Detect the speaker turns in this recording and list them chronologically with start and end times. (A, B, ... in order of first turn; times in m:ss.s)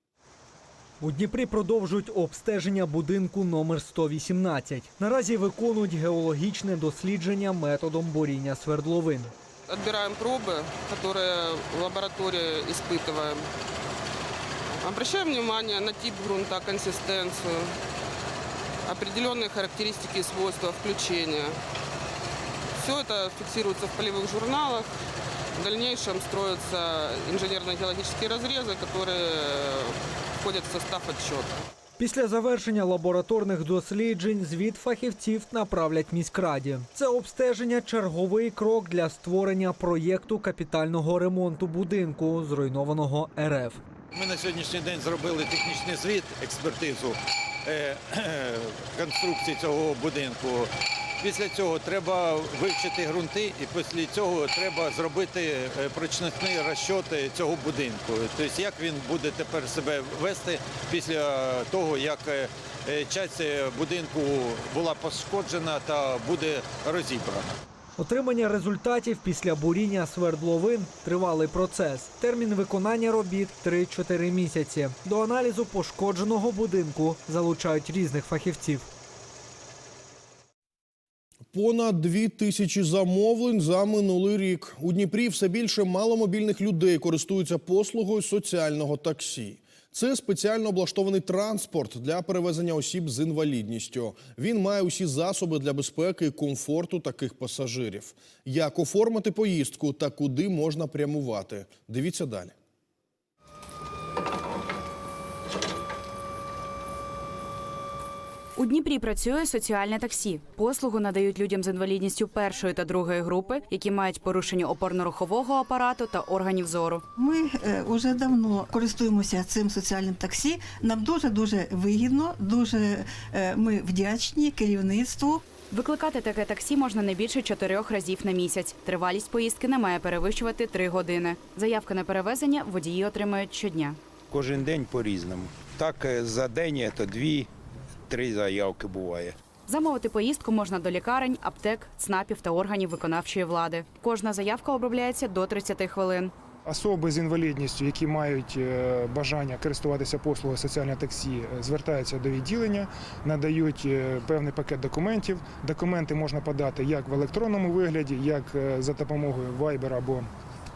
0:01.0-0:09.3 A
0:09.7-0:13.4 B
0:14.8-0:17.7 B
0:18.9-0:21.5 B
0:22.8-0:24.9 B
0:25.6-0:31.6 B
0:32.0-0:43.8 A
0:44.1-1:07.5 C
1:08.0-1:18.9 A
1:21.5-1:42.5 D
1:48.6-1:57.0 E
1:57.2-2:05.4 F
2:05.7-2:14.0 E
2:14.3-2:17.5 G
2:18.1-2:19.3 G
2:19.7-2:26.3 E
2:26.7-2:40.3 H